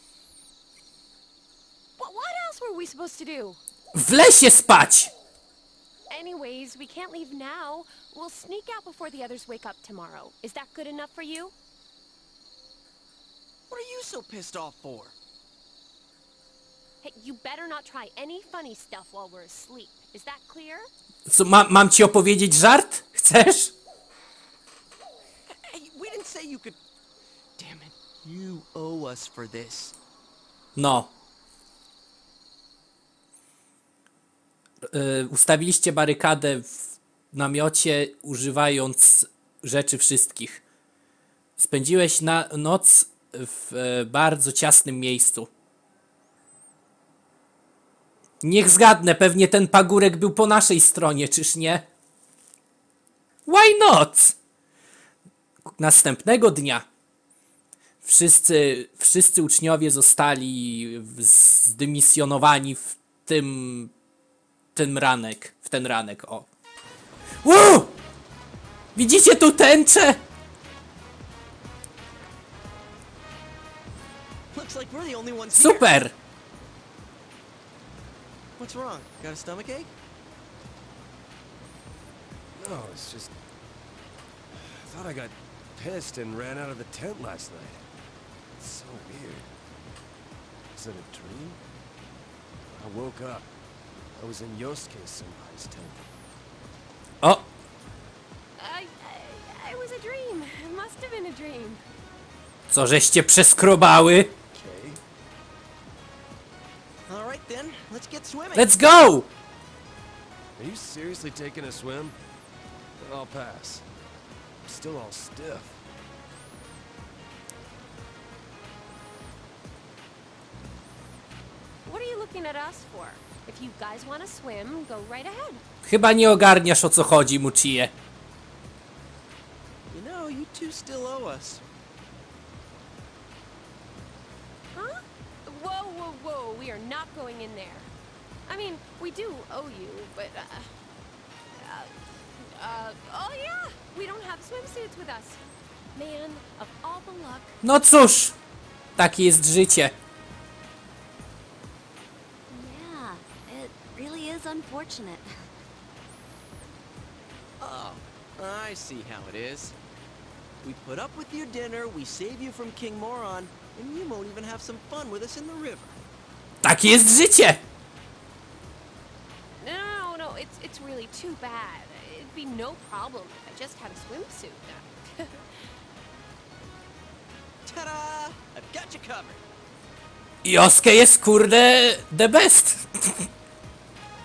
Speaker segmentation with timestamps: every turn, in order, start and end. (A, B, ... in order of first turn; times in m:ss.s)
0:02.0-0:03.6 A
0:03.9-0:05.1 B
0:06.1-0:11.5 A
0:13.7-0:15.1 C
0:17.0-0:20.9 A
0:21.2-0:23.7 B
0:25.5-0:26.8 C
0:27.6-0:30.0 C
0:30.8-0:31.1 B
0:34.9-0:40.6 B
0:41.6-0:45.5 B
0:48.4-0:51.8 B
0:53.4-0:54.4 B
0:55.8-0:56.8 B
0:58.0-1:03.9 B
1:04.8-1:06.5 B
1:07.4-1:08.0 B
1:09.0-1:10.2 B
1:14.5-1:15.9 C
1:15.5-1:16.1 B
1:18.6-1:19.9 C
1:22.6-1:23.3 D
1:24.5-1:27.8 D
1:28.6-1:29.5 D
1:30.8-1:31.6 D
1:32.7-1:33.5 D
1:34.2-1:36.1 D
1:37.2-1:37.5 B
1:38.6-1:41.8 A
1:42.7-1:44.4 B
1:44.5-1:45.0 D
1:47.1-1:48.7 C
1:48.6-1:49.3 B
1:50.6-1:52.2 D
1:53.0-1:53.8 D
1:54.6-1:55.8 D
2:01.8-2:05.6 A
2:05.9-2:07.9 B
2:09.9-2:11.6 C
2:14.7-2:17.9 A
2:18.5-2:20.7 A
2:21.6-2:25.4 A
2:25.9-2:27.6 A
2:27.6-2:28.4 B
2:29.0-2:29.9 B
2:32.5-2:35.5 E
2:37.6-2:39.8 C
2:40.6-2:46.0 C
2:46.6-2:47.6 B
2:49.6-2:55.5 A
2:57.7-2:59.4 C
3:00.4-3:03.3 B